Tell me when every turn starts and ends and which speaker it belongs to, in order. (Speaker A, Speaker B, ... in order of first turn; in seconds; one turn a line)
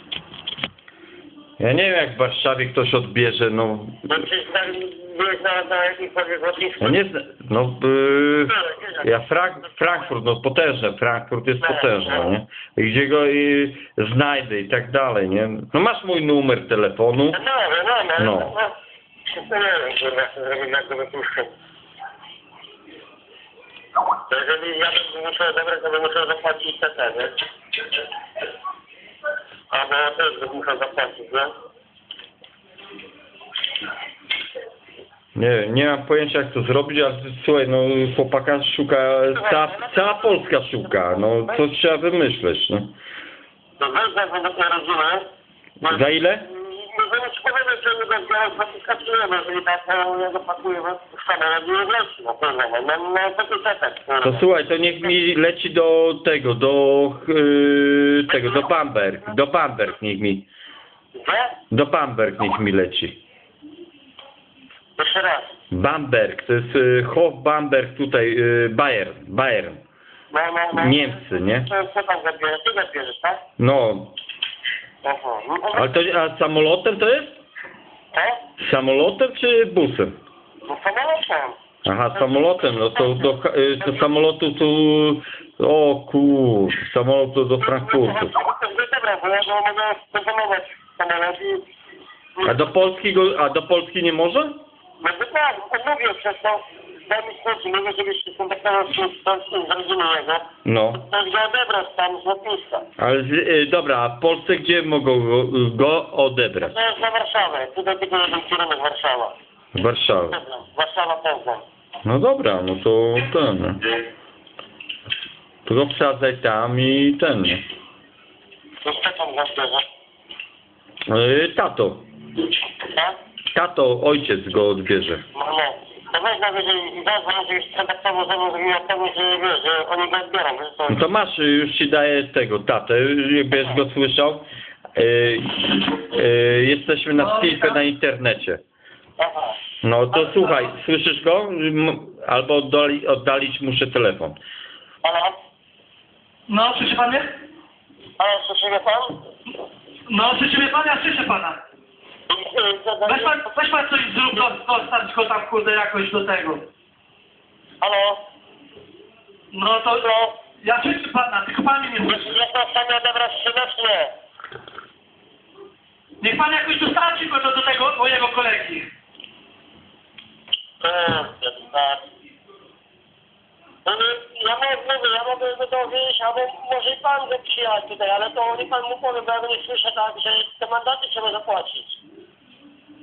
Speaker A: 1.6-4.1
Speaker B: 4.1-7.0
Speaker A: 6.8-17.4
Speaker B: 8.6-9.0
Speaker B: 11.6-12.3
Speaker B: 17.3-18.7
Speaker A: 18.2-18.6
Speaker B: 19.3-21.5
Speaker B: 24.3-27.4
Speaker B: 29.7-31.5
Speaker A: 35.4-42.9
Speaker B: 39.3-40.1
Speaker B: 43.8-45.2
Speaker A: 45.8-46.5
Speaker B: 45.8-54.5
Speaker A: 54.2-60.5
Speaker B: 61.2-61.5
Speaker A: 61.7-63.2
Speaker B: 65.0-65.5
Speaker A: 65.7-69.8
Speaker B: 70.3-73.4
Speaker A: 70.8-71.7
Speaker A: 73.6-74.2
Speaker B: 75.0-76.0
Speaker A: 75.7-77.4
Speaker B: 78.1-78.4
Speaker A: 78.6-80.2
Speaker B: 80.7-81.6
Speaker A: 81.8-88.3
Speaker B: 87.6-91.6
Speaker A: 92.4-94.6
Speaker B: 95.0-102.8
Speaker A: 100.7-101.0
Speaker A: 103.0-106.8
Speaker B: 106.6-109.3
Speaker A: 109.7-110.4
Speaker B: 110.3-111.6
Speaker A: 112.0-113.8
Speaker A: 115.7-117.6
Speaker B: 118.8-119.8
Speaker A: 121.1-122.1
Speaker A: 123.5-125.2
Speaker B: 125.3-131.1
Speaker A: 130.9-138.6
Speaker C: 137.2-137.8
Speaker B: 139.2-139.6
Speaker A: 139.8-144.4
Speaker B: 145.0-145.3
Speaker C: 146.5-147.3
Speaker B: 148.2-149.2
Speaker C: 150.1-151.6
Speaker B: 152.3-153.4
Speaker C: 153.1-156.7
Speaker B: 157.8-158.2
Speaker C: 159.5-160.1
Speaker B: 159.9-160.3
Speaker C: 160.6-162.3
Speaker B: 162.0-164.1
Speaker C: 166.2-168.9
Speaker B: 170.8-172.0
Speaker B: 173.9-182.0